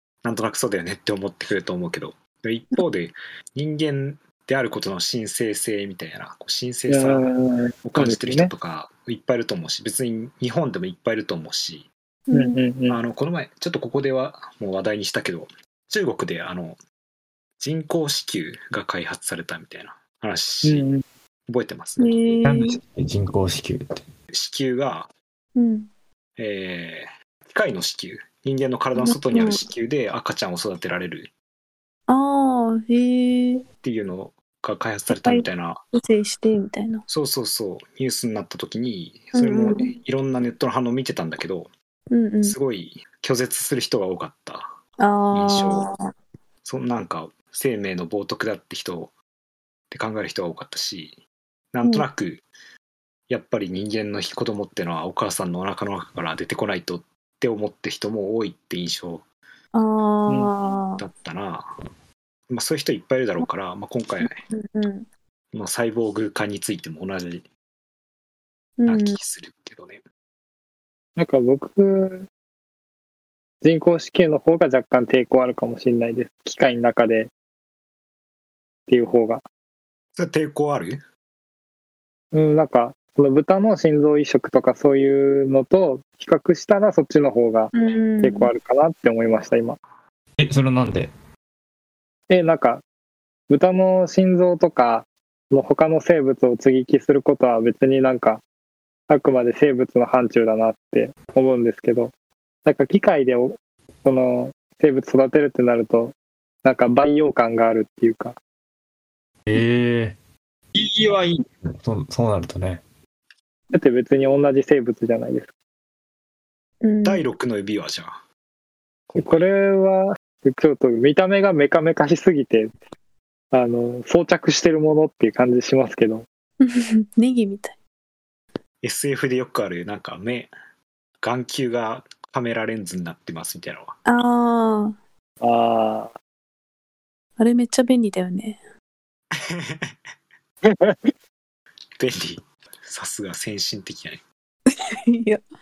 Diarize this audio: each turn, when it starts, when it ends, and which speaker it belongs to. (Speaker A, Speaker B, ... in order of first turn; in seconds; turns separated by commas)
Speaker A: 0.2-7.2, Speaker B: 6.9-8.5, Speaker A: 7.8-11.9, Speaker C: 12.3-12.6, Speaker B: 12.3-13.0, Speaker A: 12.9-16.8, Speaker A: 17.6-20.9, Speaker B: 20.6-21.0, Speaker A: 21.5-22.1, Speaker C: 22.0-22.8, Speaker D: 22.4-24.0, Speaker A: 24.3-25.1, Speaker C: 25.6-25.9, Speaker A: 26.4-31.3, Speaker C: 29.0-29.6, Speaker C: 32.1-33.6, Speaker A: 33.8-35.8, Speaker C: 35.1-37.0, Speaker A: 37.1-41.7, Speaker C: 39.3-40.0, Speaker C: 42.1-42.5, Speaker A: 42.4-44.7, Speaker C: 45.0-46.0, Speaker A: 45.3-45.9, Speaker A: 46.6-49.1, Speaker A: 49.9-51.2, Speaker A: 51.7-52.4, Speaker A: 53.3-59.2, Speaker C: 59.7-61.0, Speaker A: 61.0-61.7, Speaker A: 62.5-64.3, Speaker C: 64.2-65.1, Speaker A: 65.5-67.5, Speaker C: 68.8-69.2, Speaker A: 68.8-70.0, Speaker B: 71.2-72.3, Speaker B: 73.6-77.3, Speaker B: 78.9-79.4, Speaker A: 80.1-81.0, Speaker B: 82.3-89.8, Speaker C: 87.7-88.5, Speaker D: 90.4-91.1, Speaker B: 92.3-92.8, Speaker B: 93.5-98.4, Speaker B: 99.1-102.1, Speaker B: 102.6-108.3, Speaker D: 109.5-110.2, Speaker D: 110.7-112.8, Speaker B: 113.7-115.5, Speaker C: 116.8-117.2, Speaker A: 117.0-118.2, Speaker A: 119.1-119.4, Speaker B: 119.1-122.7, Speaker B: 123.5-126.2, Speaker C: 126.6-127.7, Speaker A: 128.8-130.5, Speaker A: 131.2-133.9, Speaker C: 134.1-134.9, Speaker B: 135.4-136.1, Speaker C: 137.4-138.6, Speaker A: 139.4-139.9, Speaker B: 140.7-141.1, Speaker A: 142.0-144.2, Speaker C: 144.7-145.4